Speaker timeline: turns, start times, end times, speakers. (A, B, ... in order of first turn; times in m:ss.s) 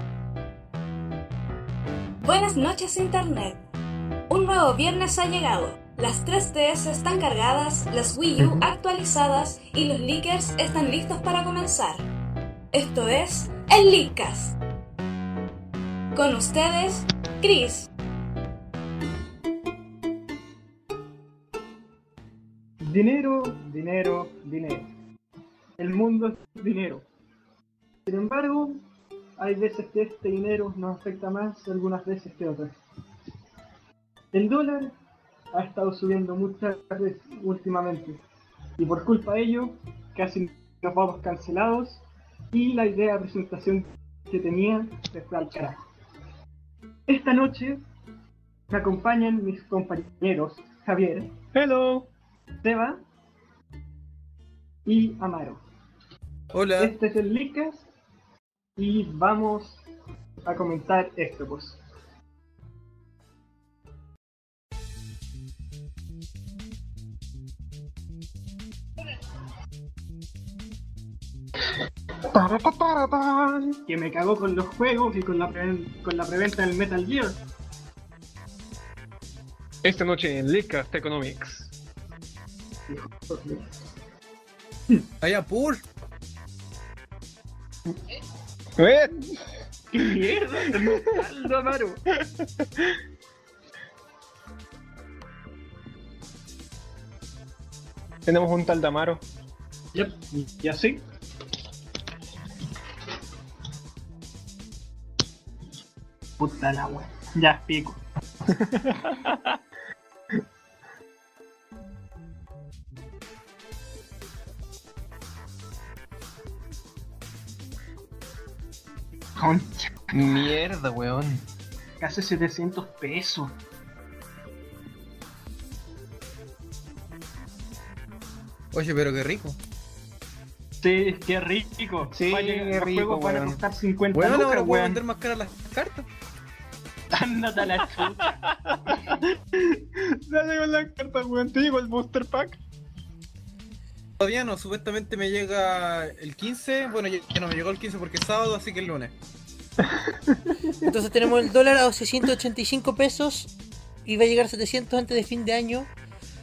0:02.2-0:03.6 A
0:04.3-0:12.0 A
0:08.4-0:08.6 B
0:12.7-0:14.6 A
0:16.1-0:17.9 A
0:22.8-0:24.9 C
0:25.8-0:27.0 C
0:28.0-0:28.8 C
0:29.4-0:32.8 C
0:34.3-0:34.9 C
0:35.5-0:38.2 C
0:38.8-0:45.8 C
0:47.1-0:47.8 C
0:48.7-0:51.3 C
0:51.5-0:52.1 B
0:52.6-0:53.0 C
0:54.8-0:55.6 C
0:56.5-0:56.9 D
0:56.8-0:57.8 C
0:58.8-0:59.8 C
1:00.4-1:01.8 C
1:12.3-1:13.8 B
1:13.8-1:17.4 C
1:19.8-1:21.7 B
1:22.9-1:23.7 C
1:25.2-1:25.8 D
1:28.8-1:29.4 B
1:29.9-1:32.0 C
1:30.7-1:31.0 B
1:32.6-1:32.9 B
1:38.2-1:39.2 B
1:39.9-1:41.0 C
1:46.4-1:48.0 C
1:48.5-1:49.2 B
1:59.4-2:00.2 C
2:00.1-2:01.4 B
2:02.0-2:03.6 C
2:08.7-2:09.6 D
2:10.8-2:15.0 C
2:12.1-2:13.6 B
2:14.1-2:16.1 D
2:17.1-2:18.4 C
2:17.8-2:22.6 B
2:24.2-2:29.1 D
2:29.8-2:30.8 B
2:30.9-2:33.5 E
2:34.0-2:35.9 E